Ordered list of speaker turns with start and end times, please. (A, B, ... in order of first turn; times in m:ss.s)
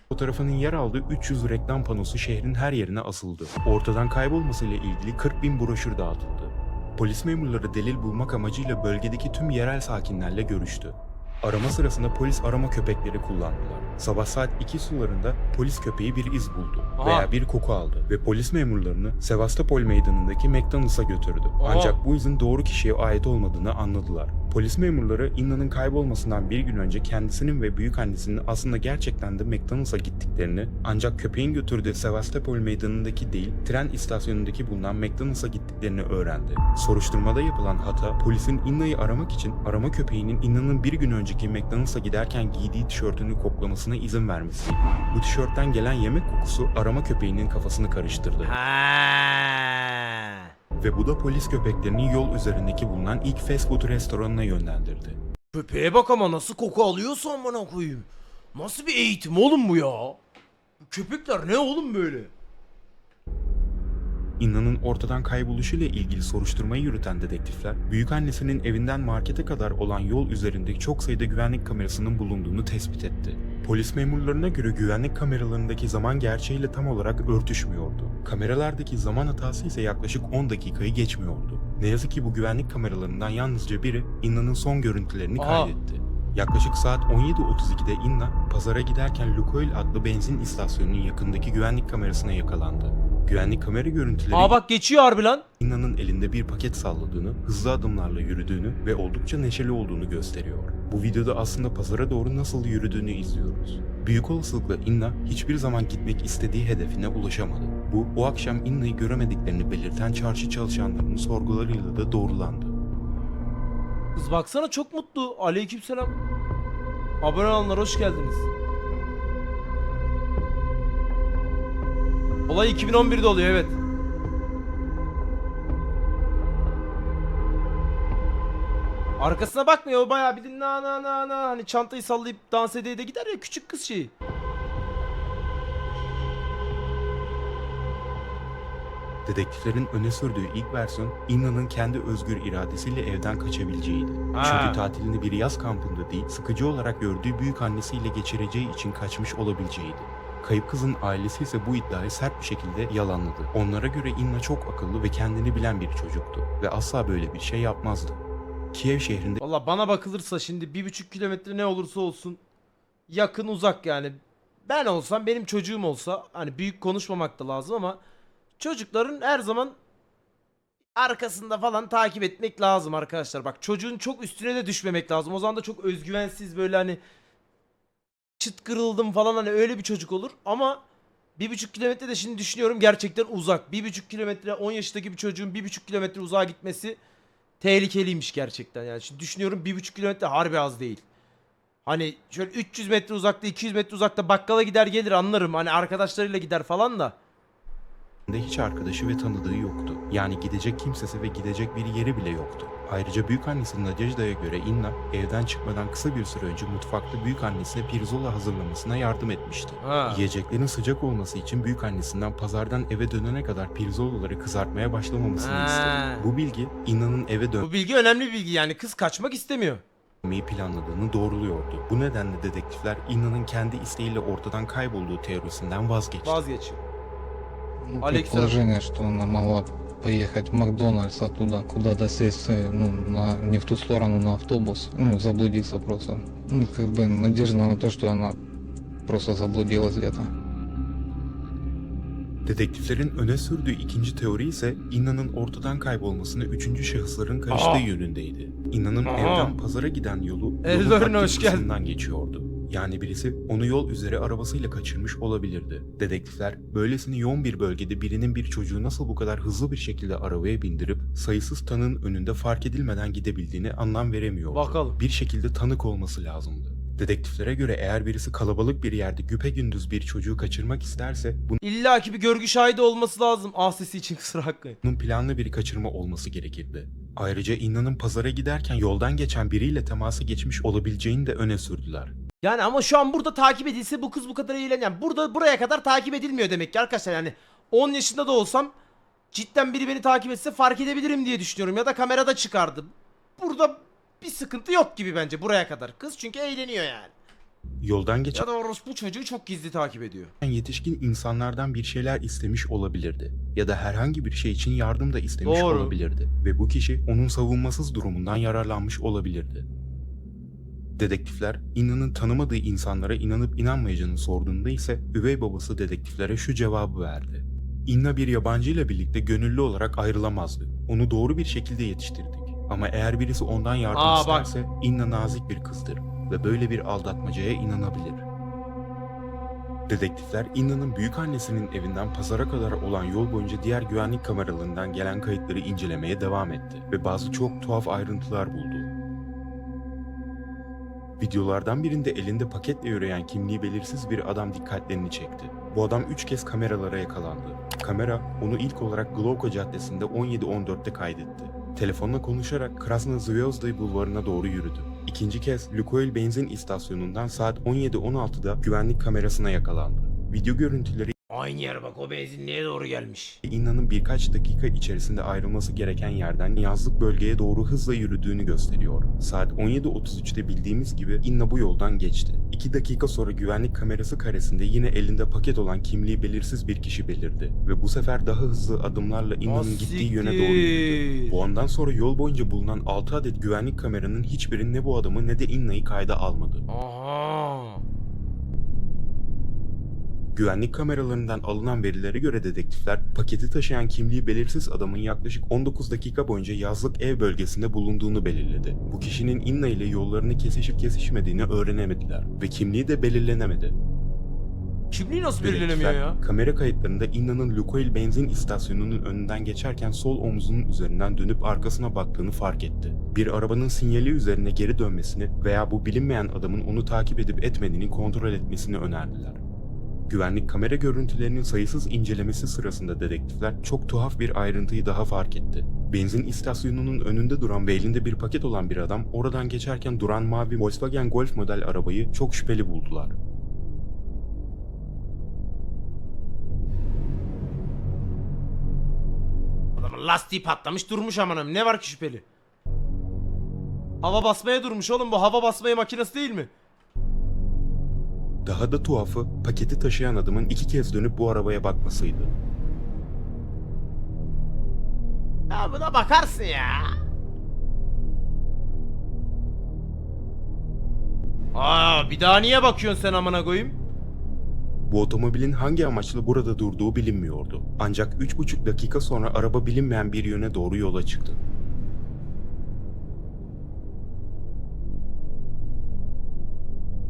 0:00.1-0:48.6 A
0:17.0-0:17.3 B
0:21.6-0:22.0 B
0:48.4-0:50.5 B
0:50.8-0:55.2 A
0:55.5-1:00.2 B
1:00.8-1:02.3 B
1:04.4-1:34.6 A
1:25.4-1:25.7 B
1:34.3-1:35.4 B
1:35.6-1:52.8 A
1:54.1-1:56.2 B
1:57.2-1:58.5 B
2:02.5-2:03.8 B
2:09.2-2:14.1 B
2:19.2-2:38.2 A
2:24.3-2:24.8 B
2:38.7-2:39.4 A
2:39.4-2:42.4 B
2:43.1-2:48.0 B
2:48.6-2:49.8 B
2:51.0-2:57.0 B
2:58.4-3:00.8 B
3:01.4-3:07.0 B
3:07.6-3:11.0 B
3:11.8-3:17.2 B
3:18.3-3:37.7 A
3:29.8-3:30.3 B
3:35.4-3:36.3 B
3:37.6-3:39.8 B
3:40.2-3:46.4 A
3:46.2-3:46.8 B
3:47.9-3:58.4 C
3:48.0-3:48.6 B
3:59.0-4:00.3 C
4:02.4-4:31.6 A
4:07.5-4:07.8 B
4:09.1-4:09.5 B
4:10.6-4:11.7 B
4:24.5-4:25.0 B
4:31.6-4:34.8 B
4:34.8-4:42.1 A
4:42.4-4:48.7 B
4:49.3-4:57.1 B
4:57.8-4:58.5 A
4:58.3-5:00.3 B
5:00.4-5:09.7 A
5:05.4-5:05.9 B
5:11.0-5:28.2 A
5:23.9-5:24.5 B
5:29.9-5:38.9 A
5:41.2-6:01.1 A
6:01.3-6:03.4 B
6:03.4-6:26.6 A
6:19.4-6:21.4 B
6:26.7-6:27.8 B
6:30.3-6:43.8 A
6:44.9-6:46.2 B
6:45.4-6:59.4 A
7:00.1-7:13.1 A
7:19.8-7:22.2 B
7:24.0-7:26.5 B
7:28.4-7:32.3 A
7:35.5-7:36.9 B
7:41.5-7:43.8 B
7:44.9-7:51.4 A